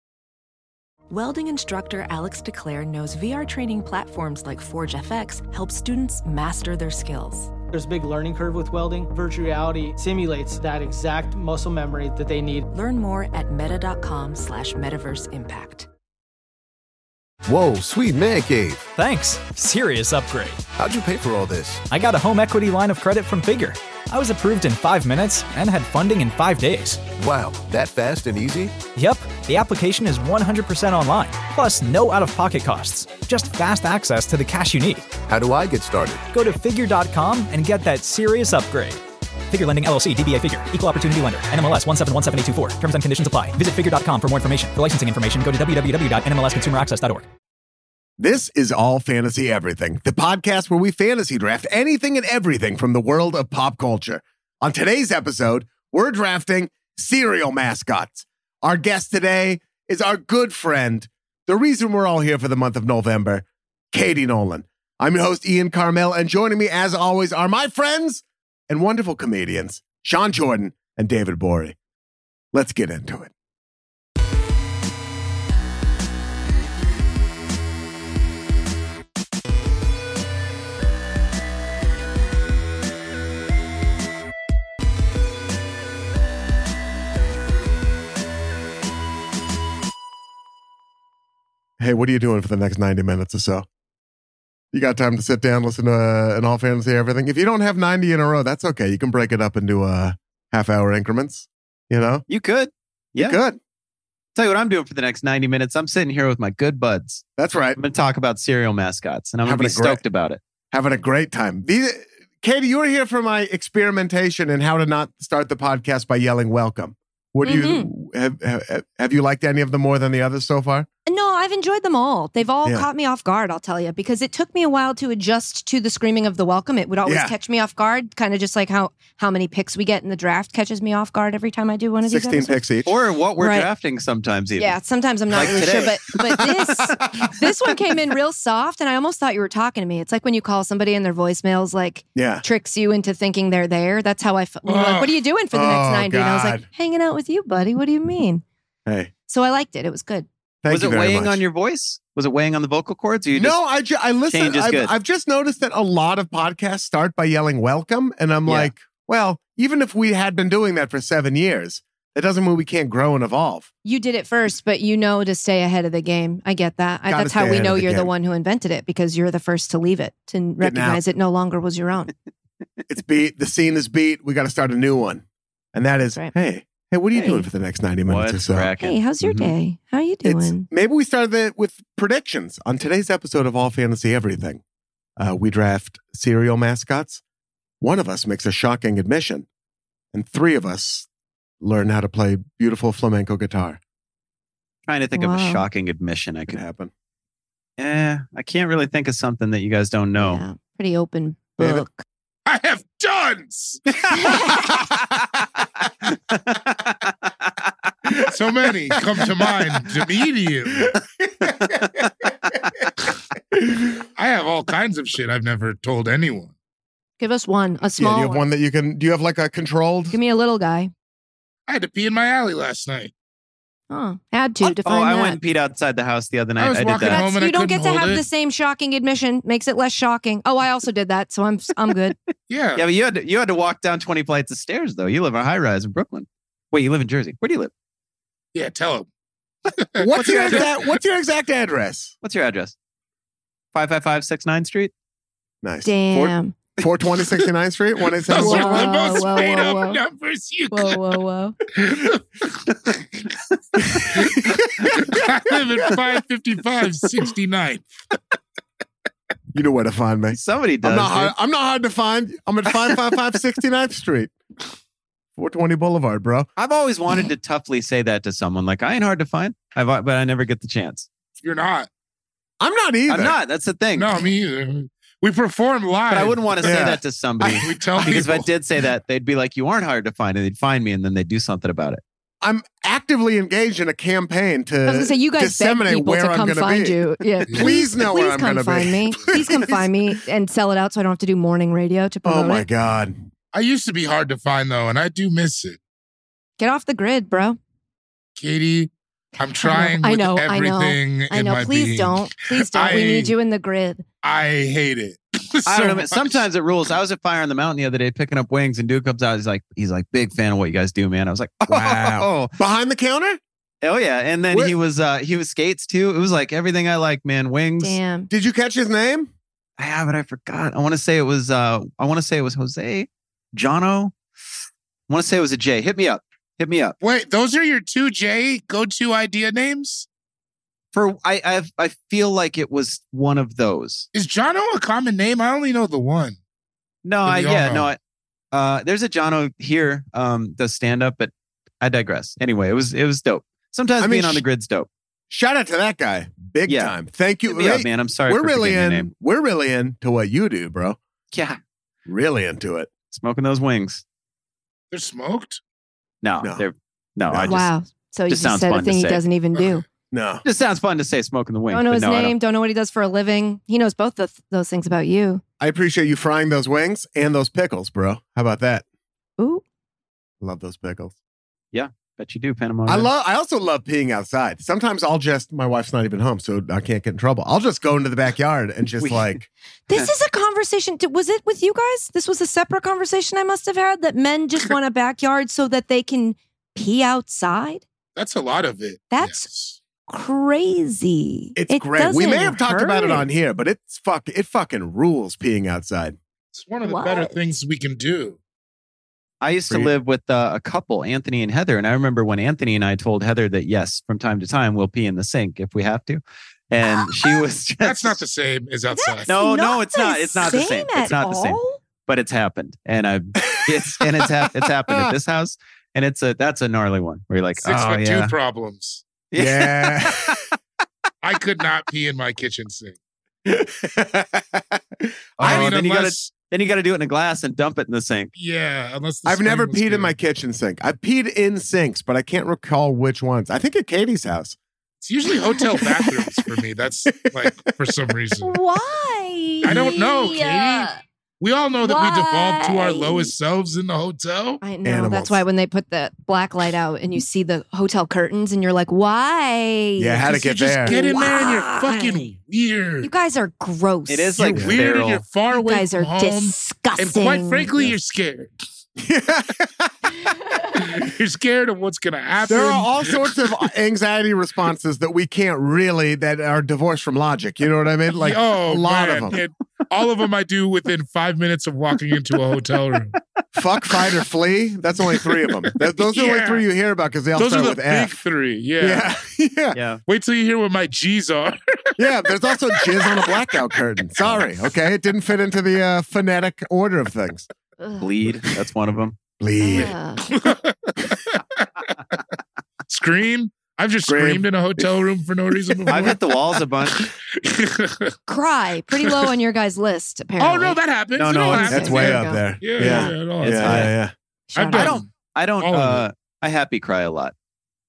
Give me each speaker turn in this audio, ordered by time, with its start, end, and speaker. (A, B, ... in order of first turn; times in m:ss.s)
0:01.1-0:07.5 A
0:07.7-0:12.7 B
0:12.7-0:15.9 A
0:17.5-0:18.9 C
0:19.0-0:20.6 D
0:20.8-0:21.8 C
0:21.9-0:27.0 D
0:27.2-0:28.8 C
0:29.0-0:35.1 D
0:35.3-0:36.3 C
0:36.3-0:47.3 D
0:48.2-1:11.8 E
1:12.5-1:13.3 E
1:31.8-1:33.7 E
1:34.7-1:42.2 E
1:42.3-1:43.4 F
1:43.2-1:43.6 E
1:44.4-1:50.4 F
1:47.4-1:47.8 E
1:49.4-1:50.0 E
1:50.7-2:00.9 E
1:57.4-1:57.9 G
2:01.1-2:12.6 G
2:07.0-2:07.3 E
2:12.0-2:12.9 E
2:12.9-2:14.8 F
2:13.4-2:13.7 G
2:14.6-2:28.4 G
2:15.3-2:17.3 E
2:15.4-2:16.1 F
2:22.2-2:22.4 E
2:24.6-2:25.2 H
2:25.5-2:26.7 E
2:28.9-2:29.1 E
2:29.3-2:30.3 G
2:30.6-2:31.4 E
2:30.7-2:33.6 F
2:33.3-2:43.7 E
2:34.3-2:35.0 F
2:38.5-2:38.7 F
2:43.8-2:52.1 G
2:47.1-2:48.1 E
2:50.6-2:51.0 E
2:52.9-2:55.2 E
2:55.8-2:58.7 E
2:57.1-2:57.5 G
2:58.1-2:59.5 F
2:58.8-3:00.7 G
3:00.2-3:04.6 E
3:05.2-3:07.2 E
3:07.8-3:09.5 E
3:10.1-3:11.1 E
3:11.6-3:13.8 E
3:14.9-3:16.6 F
3:15.2-3:15.6 G
3:16.5-3:16.9 E
3:17.8-3:20.4 F
3:20.2-3:22.0 G
3:21.6-3:21.9 E
3:22.5-3:23.8 H
3:24.2-3:24.6 G
3:26.1-3:27.1 F
3:28.3-3:30.9 H
3:30.8-3:31.8 E
3:33.6-3:34.0 E
3:34.2-3:36.5 H
3:37.2-3:38.5 G
3:38.0-3:40.2 E
3:40.1-3:40.9 G
3:41.7-3:43.1 H
3:43.9-3:45.4 G
3:44.6-3:47.2 F
3:46.6-3:48.2 H
3:47.0-3:52.2 G
3:52.5-3:52.8 H
3:52.8-3:57.7 F
3:58.5-3:59.1 H
3:59.7-4:00.6 H
4:00.0-4:02.1 E
4:00.1-4:00.8 F
4:02.2-4:02.8 F
4:03.7-4:04.9 F
4:05.6-4:08.9 E
4:05.8-4:06.5 G
4:08.3-4:11.0 H
4:08.4-4:10.0 G
4:10.7-4:11.6 G
4:11.7-4:12.7 H
4:13.8-4:15.3 E
4:14.2-4:17.9 H
4:19.5-4:24.3 E
4:20.3-4:21.3 F
4:25.4-4:26.5 E
4:26.6-4:31.1 F
4:31.4-4:31.9 H
4:32.6-4:33.4 E
4:33.1-4:34.2 F
4:34.0-4:36.8 H
4:36.1-4:42.0 F
4:36.6-4:37.6 E
4:37.5-4:38.5 H
4:42.4-4:49.9 E
4:44.9-4:52.7 G
4:52.2-4:53.3 E
4:53.5-4:55.8 H
4:56.6-4:57.6 G
4:58.4-5:03.3 H
4:59.6-5:04.0 G
5:04.2-5:06.4 H
5:05.7-5:12.5 F
5:11.7-5:13.4 E
5:13.8-5:18.0 F
5:17.8-5:18.3 G
5:18.3-5:19.3 E
5:19.8-5:24.2 F
5:25.1-5:27.0 F
5:27.0-5:30.1 H
5:30.9-5:34.1 F
5:34.1-5:36.4 H
5:37.0-5:38.0 F
5:37.3-5:37.9 H
5:38.5-5:44.9 F
5:44.0-5:44.4 E
5:45.3-5:51.0 E
5:46.7-5:46.9 F
5:47.5-5:49.1 F
5:51.3-5:51.6 F
5:52.1-5:52.9 E
5:53.1-5:54.0 F
5:54.9-5:55.6 H
5:56.2-5:57.6 F
5:57.3-5:57.6 E
5:57.4-5:59.8 G
5:58.3-5:59.2 F
6:00.1-6:00.4 E
6:00.4-6:02.4 F
6:01.7-6:05.4 G
6:05.6-6:08.8 E
6:09.4-6:09.6 G
6:10.4-6:11.2 E
6:11.7-6:13.1 F
6:12.9-6:19.4 E
6:19.0-6:19.4 F
6:19.9-6:27.8 G
6:28.2-6:29.8 H
6:29.1-6:29.5 G
6:30.1-6:33.3 G
6:31.6-6:36.2 E
6:36.5-6:38.4 H
6:36.8-6:37.3 G
6:39.4-6:48.2 F
6:47.0-6:47.4 G
6:47.8-6:49.3 H
6:49.0-6:51.8 G
6:49.3-6:58.3 F
6:53.6-6:54.3 E
6:54.9-6:55.1 E
6:57.6-6:59.0 H
6:59.3-7:00.4 F
6:59.4-7:00.4 E
7:01.2-7:03.0 H
7:03.4-7:05.7 E
7:05.4-7:08.3 F
7:05.4-7:06.3 H
7:08.4-7:10.1 H
7:09.3-7:14.6 E
7:15.0-7:18.6 H
7:15.7-7:16.4 E
7:17.2-7:18.0 E
7:18.4-7:21.0 G
7:19.6-7:20.9 H
7:21.4-7:24.6 H
7:21.8-7:23.3 G
7:24.6-7:32.3 G
7:24.8-7:25.4 E
7:30.0-7:31.1 E
7:30.3-7:33.1 H
7:33.0-7:34.4 G
7:34.1-7:35.2 F
7:34.4-7:38.5 H
7:35.5-7:37.7 G
7:39.0-7:40.1 E
7:40.8-7:43.3 H
7:42.4-7:49.4 E
7:48.2-7:53.1 H
7:53.5-7:58.2 E
7:56.1-7:56.6 H
7:57.4-7:59.1 H
7:58.8-7:59.8 E
7:59.7-8:00.0 F
8:00.1-8:03.2 H
8:02.0-8:07.5 E
8:07.8-8:08.1 G
8:08.0-8:09.2 F
8:09.4-8:10.0 E
8:09.6-8:10.3 G
8:09.7-8:11.7 H
8:12.9-8:16.4 H
8:14.1-8:15.0 E
8:15.7-8:16.1 E
8:15.9-8:17.1 F
8:17.0-8:18.2 H
8:18.3-8:20.8 G
8:20.4-8:23.9 H
8:21.2-8:22.0 F
8:21.5-8:23.1 G
8:21.7-8:24.1 E
8:23.4-8:24.0 F
8:24.5-8:24.9 G
8:24.6-8:26.0 H
8:24.7-8:27.3 F